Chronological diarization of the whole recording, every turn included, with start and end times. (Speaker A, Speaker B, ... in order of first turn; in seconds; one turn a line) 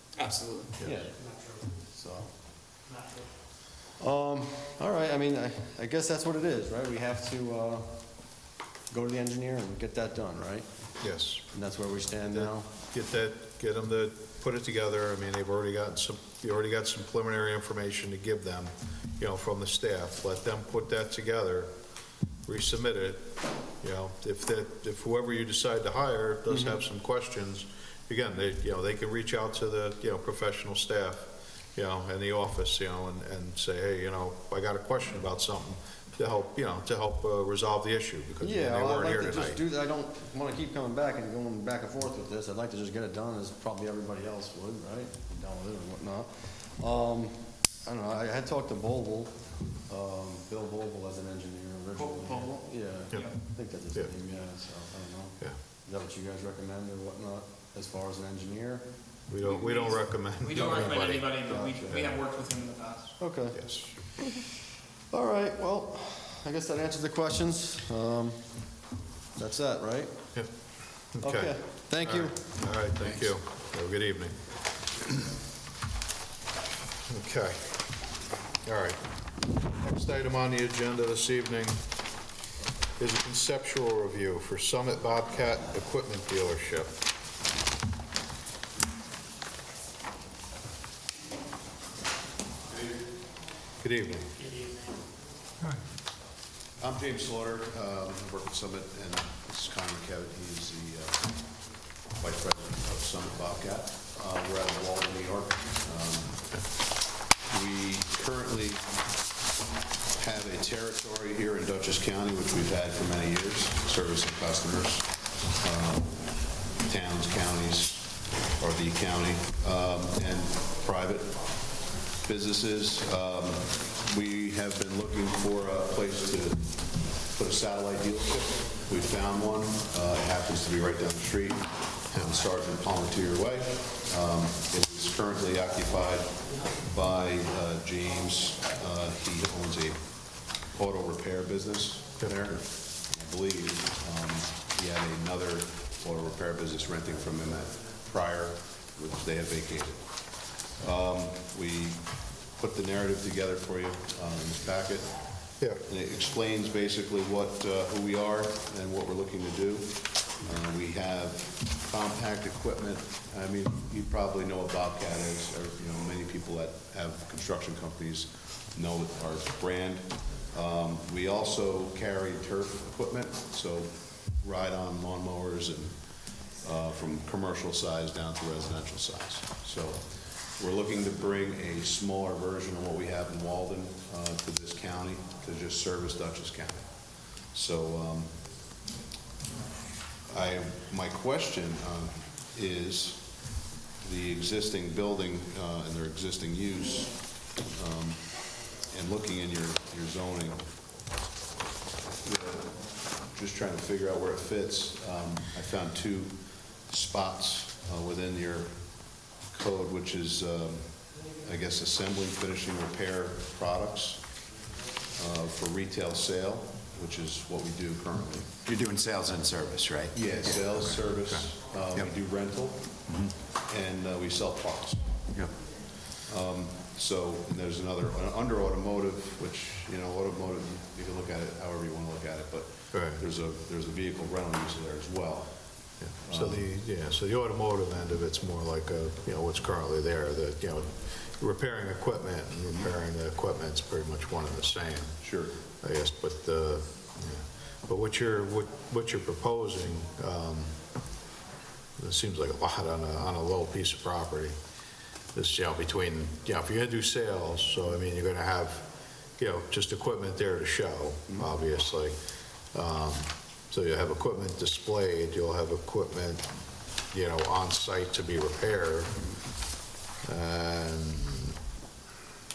Speaker A: 0.2-0.7
Speaker B: 0.8-2.3
Speaker B: 4.0-8.0
Speaker B: 8.9-10.7
Speaker C: 11.0-11.5
Speaker B: 11.5-12.7
Speaker C: 12.3-21.7
Speaker C: 22.5-39.6
Speaker B: 38.4-58.9
Speaker C: 59.3-61.3
Speaker A: 59.5-63.2
Speaker B: 61.4-62.2
Speaker B: 63.2-63.6
Speaker C: 63.5-63.9
Speaker B: 65.1-68.5
Speaker B: 69.4-70.2
Speaker C: 71.2-74.3
Speaker B: 71.2-72.5
Speaker C: 77.1-77.7
Speaker C: 78.7-79.0
Speaker C: 79.8-81.8
Speaker C: 83.0-86.9
Speaker C: 93.8-94.3
Speaker D: 96.8-101.4
Speaker D: 102.2-106.4
Speaker D: 107.5-108.8
Speaker D: 110.2-121.6
Speaker D: 122.2-140.1
Speaker D: 140.7-155.2
Speaker C: 142.2-142.5
Speaker D: 155.9-176.0
Speaker D: 176.6-186.9
Speaker D: 187.5-188.4
Speaker D: 190.3-193.3
Speaker D: 194.0-198.3
Speaker D: 198.9-200.6
Speaker D: 202.2-208.8
Speaker D: 209.5-214.3
Speaker D: 215.2-218.5
Speaker E: 218.6-222.1
Speaker D: 220.1-222.9
Speaker E: 223.1-223.3
Speaker D: 223.7-225.1
Speaker D: 226.3-235.5
Speaker C: 232.9-233.2
Speaker C: 236.0-245.2
Speaker D: 236.3-236.7
Speaker D: 245.2-245.6
Speaker C: 245.8-250.7
Speaker C: 252.0-254.5
Speaker C: 255.3-258.9
Speaker C: 259.4-262.1
Speaker C: 262.7-266.4
Speaker C: 267.1-269.1
Speaker C: 270.2-271.6